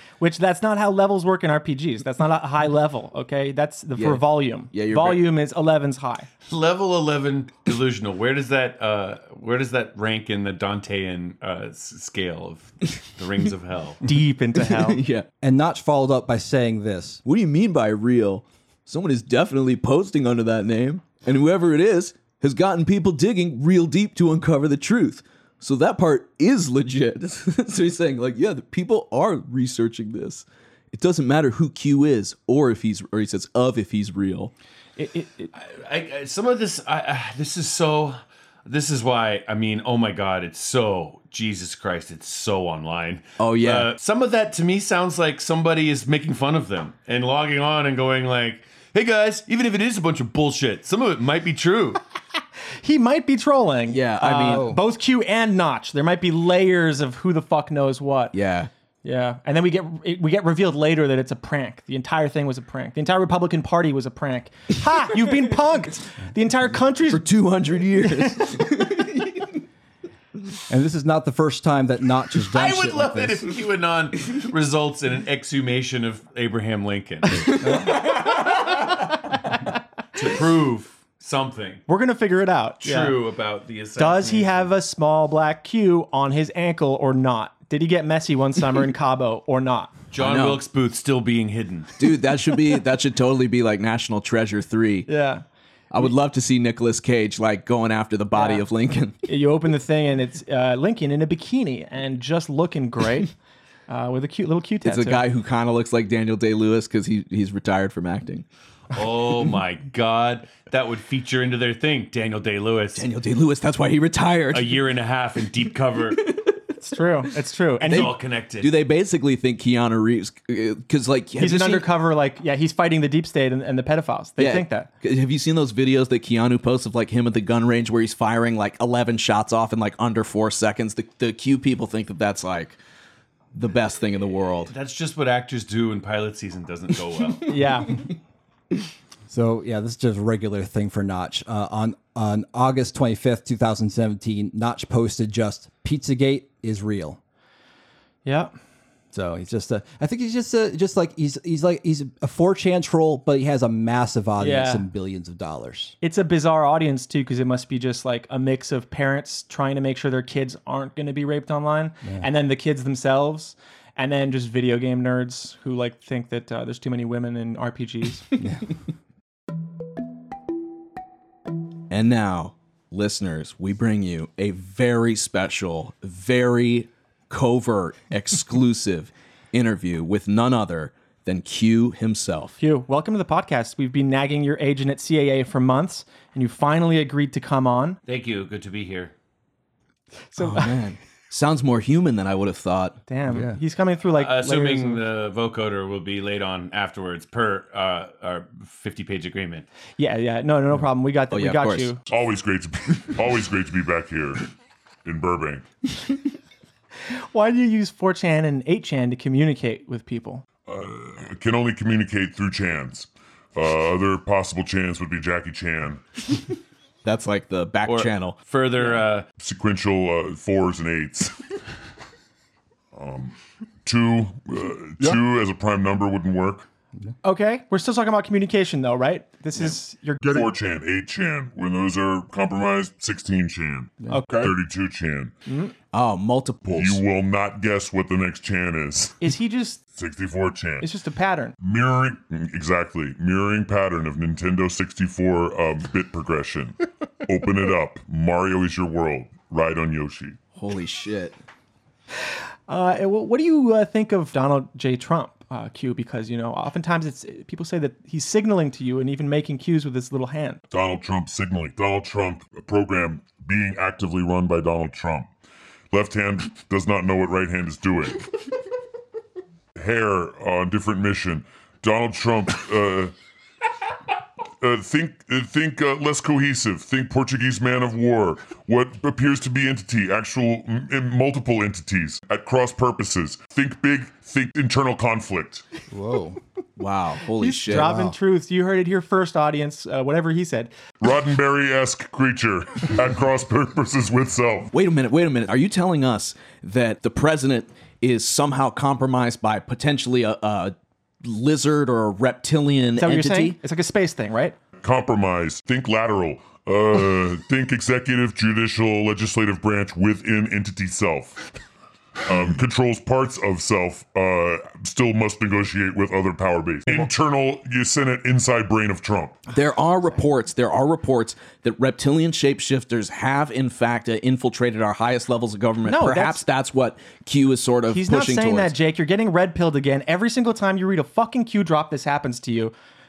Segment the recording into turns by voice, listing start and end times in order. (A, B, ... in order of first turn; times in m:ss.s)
0:00.2-0:06.3 A
0:04.0-0:05.2 B
0:06.5-0:14.0 C
0:14.0-0:15.0 A
0:14.6-0:15.3 B
0:15.4-0:17.2 D
0:17.2-0:34.5 B
0:35.0-0:35.5 A
0:35.5-0:52.0 C
0:43.4-0:43.9 B
0:52.8-0:58.4 A
0:53.9-0:54.7 B
0:54.5-0:54.8 D
0:58.3-0:58.7 B
0:59.0-1:07.3 A
1:07.1-1:09.6 B
1:08.1-1:08.4 A
1:10.7-1:13.5 D
1:12.5-1:18.1 C
1:20.2-1:21.8 C
1:21.9-1:23.2 A
1:22.8-1:24.7 C
1:24.0-1:30.0 A
1:30.1-1:32.2 C
1:30.2-1:30.6 B
1:32.0-1:35.1 B
1:35.1-1:35.4 A
1:35.9-1:39.2 B
1:38.3-1:38.7 A
1:39.3-1:43.3 A
1:43.9-1:45.2 A
1:44.8-1:48.4 B
1:48.9-1:53.1 C
1:53.0-1:54.8 B
1:54.5-1:56.3 C
1:56.2-1:56.5 B
1:56.8-1:58.1 A
1:57.8-1:58.7 C
1:57.9-2:01.9 B
2:01.4-2:04.9 A
2:04.4-2:12.8 B
2:13.5-2:14.7 B
2:14.7-2:17.6 C
2:17.5-2:18.0 A
2:19.3-2:27.2 D
2:28.2-2:28.5 A
2:29.1-2:36.0 D
2:34.4-2:34.9 A
2:36.0-2:48.3 A
2:48.4-2:48.7 D
2:51.9-3:02.6 B
3:02.6-3:08.0 A
3:08.1-3:09.1 C
3:10.3-3:10.8 A
3:10.4-3:13.0 B
3:13.1-3:15.0 A
3:13.3-3:13.6 D
3:14.1-3:19.7 C
3:20.0-3:22.0 A
3:21.3-3:21.9 B
3:22.1-3:24.5 E
3:25.0-3:25.6 E
3:27.1-3:30.4 A
3:30.7-3:36.0 E
3:37.0-3:38.4 B
3:37.8-3:39.3 C
3:39.4-3:41.4 E
3:42.9-3:46.7 E
3:47.2-3:50.5 A
3:50.2-3:55.3 E
3:54.0-3:54.3 D
3:54.1-3:54.5 A
3:55.5-3:55.7 A
3:55.9-3:57.0 B
3:56.7-3:59.2 E
3:59.2-3:59.8 A
4:00.0-4:00.9 E
4:00.8-4:01.6 A
4:01.6-4:10.4 E
4:10.6-4:11.4 B
4:12.7-4:20.6 A
4:20.7-4:25.3 E
4:25.9-4:28.3 E
4:29.8-4:33.1 E
4:34.6-4:45.6 E
4:45.9-4:46.4 D
4:46.8-4:47.9 B
4:47.4-4:50.7 A
4:47.7-4:48.2 D
4:51.0-4:54.7 E
4:54.7-5:03.6 B
5:03.0-5:04.6 A
5:04.8-5:11.5 E
5:12.2-5:19.4 E
5:19.5-5:28.7 B
5:25.8-5:26.4 A
5:27.9-5:32.7 A